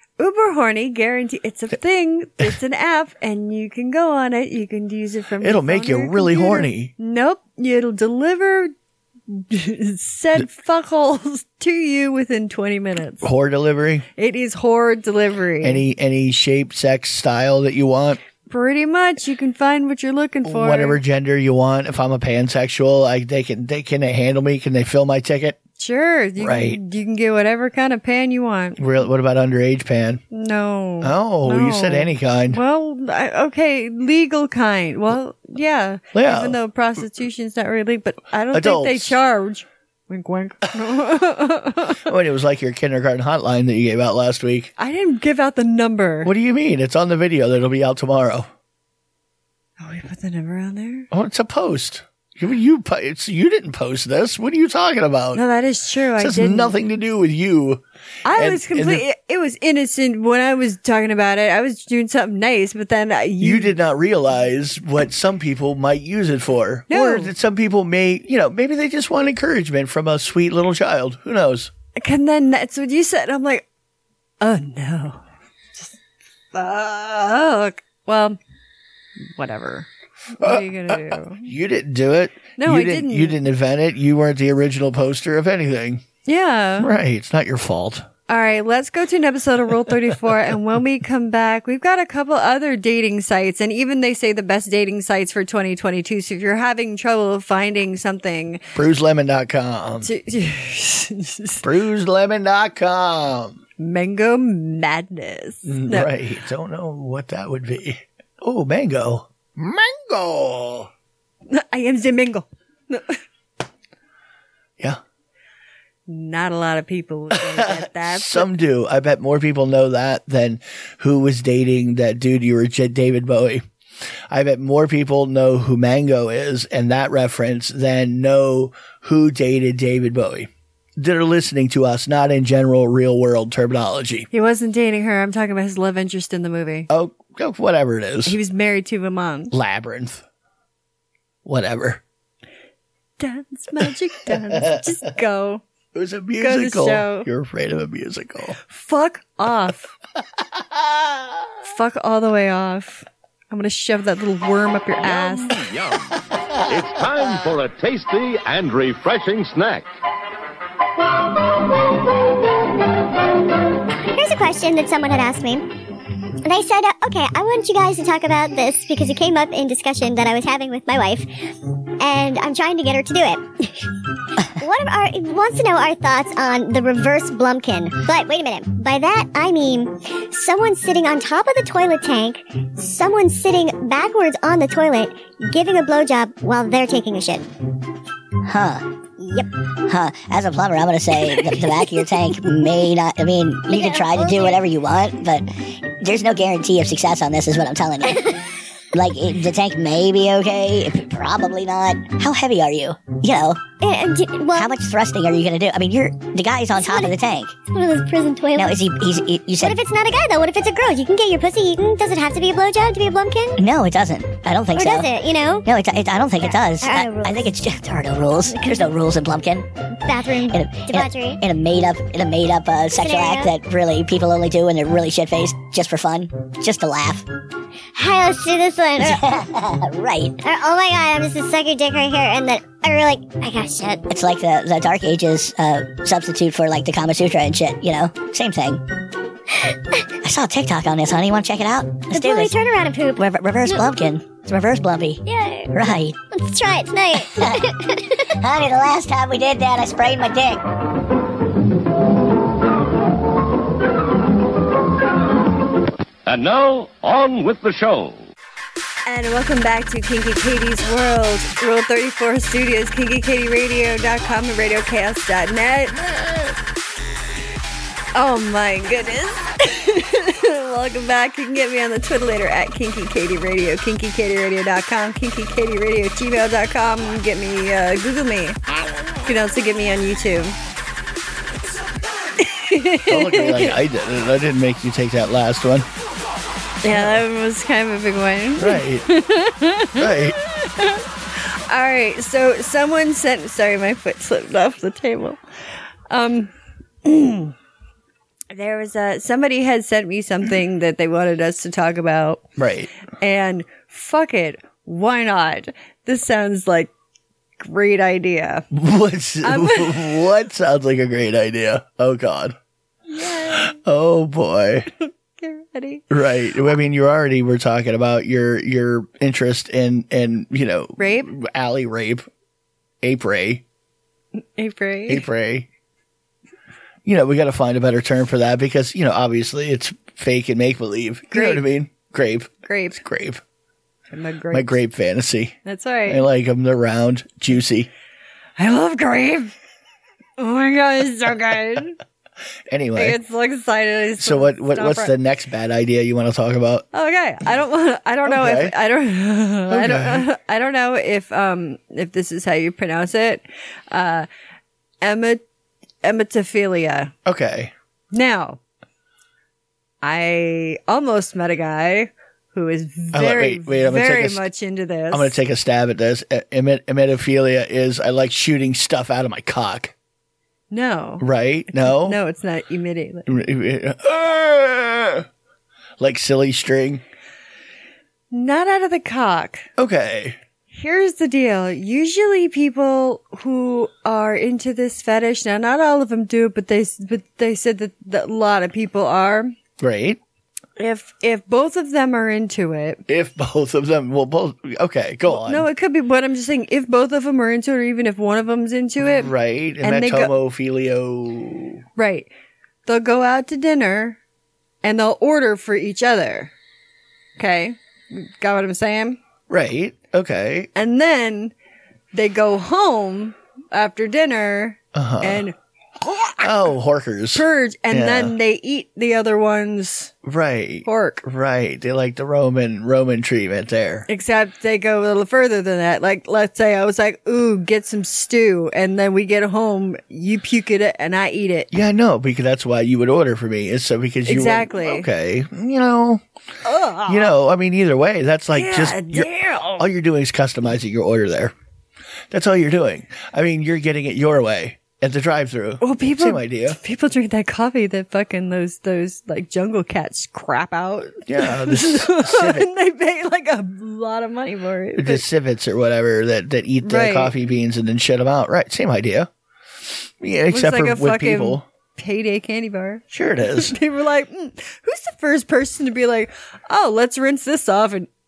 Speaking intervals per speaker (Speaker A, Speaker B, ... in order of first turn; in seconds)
Speaker A: 0.2-8.7, 9.3-13.3, 14.2-15.8, 18.5-21.0, 25.8-28.8, 30.3-42.0, 44.8-46.3, 49.8-51.1, 55.3-56.7, 58.2-63.7, 66.9-67.3, 72.0-73.7, 74.4-75.9, 76.5-78.4, 79.2-81.5, 82.6-83.4, 86.3-86.9, 88.3-98.7, 100.0-101.7, 103.8-106.1, 111.5-113.2, 116.1-118.5, 134.3-136.9, 138.2-139.6, 143.2-145.6, 146.4-147.3, 148.6-149.9, 151.6-155.5, 259.1-266.1, 268.1-278.6, 279.2-280.6, 282.4-283.8, 286.8-296.5, 297.0-297.6, 298.5-302.5, 303.1-306.9, 307.6-308.7, 309.4-310.3, 313.1-313.8, 315.0-316.0, 321.0-321.3, 324.4-325.3, 331.3-331.6, 332.6-333.0, 334.1-334.8, 335.6-336.2, 338.6-339.6, 340.4-342.0, 342.9-345.1, 346.9-354.3, 355.0-355.4, 356.0-357.1, 358.1-358.6, 360.0-365.4, 370.7-373.3, 378.3-379.7, 380.7-389.6, 390.8-393.0, 395.3-400.3, 402.0-402.3, 402.9-404.2, 404.8-406.5, 407.4-409.2, 410.8-411.5, 412.1-416.5, 417.3-420.1, 420.9-421.2, 424.1-431.7, 434.2-435.1, 436.6-437.3, 438.5-439.9, 445.8-455.2, 456.8-457.3, 460.5-468.1
Speaker B: 5.4-6.9, 13.2-14.1, 15.6-18.2, 20.4-25.6, 26.4-26.8, 28.8-30.2, 31.0-32.6, 36.1-36.6, 38.5-39.2, 42.0-44.7, 46.2-48.5, 51.1-55.4, 56.2-57.8, 58.4-59.0, 63.4-71.7, 80.4-86.0, 86.8-88.1, 98.8-100.1, 101.6-103.6, 105.7-110.9, 117.3-123.6, 124.3-134.3, 136.9-138.4, 139.5-140.2, 141.4-142.0, 144.5-144.8, 145.9-148.6, 283.1-285.9, 286.9-287.2, 288.6-289.1, 290.0-290.4, 302.6-302.9, 308.7-312.6, 313.5-314.9, 316.1-322.3, 323.0-323.6, 325.1-325.7, 327.1-333.4, 334.5-337.9, 342.7-343.2, 344.2-346.9, 348.2-348.7, 349.7-350.3, 357.3-357.7, 363.1-364.5, 365.1-369.9, 371.2-372.2, 373.3-375.3, 376.0-377.0, 379.8-380.4, 389.8-390.2, 393.1-395.7, 399.0-401.8, 409.5-410.7, 414.9-415.5, 416.4-418.4, 420.2-424.1, 431.7-436.2, 437.1-441.5, 442.3-446.8, 451.3-452.7, 455.0-459.3, 460.2-461.6, 463.1-463.8
Speaker C: 155.0-156.1, 156.7-159.9, 256.3-258.3
Speaker D: 164.1-165.7, 166.4-171.3, 172.0-173.9, 174.5-187.5, 189.2-189.5, 193.7-194.6, 198.1-198.3, 203.8-204.8, 206.7-207.1, 207.7-208.8, 209.6-213.6, 214.7-215.7, 216.4-217.5, 218.5-218.9, 220.0-221.4, 223.0-223.5, 227.9-229.5, 230.4-234.1, 242.1-243.9, 245.3-245.8, 246.3-248.2
Speaker E: 188.5-188.8, 189.9-195.5, 196.0-198.3, 198.9-203.6, 204.5-207.6, 208.6-209.8, 213.6-215.1, 215.7-219.7, 220.5-227.2, 229.0-230.4, 234.1-238.8, 240.2-242.6, 243.2-245.2, 245.7-246.2, 248.4-250.6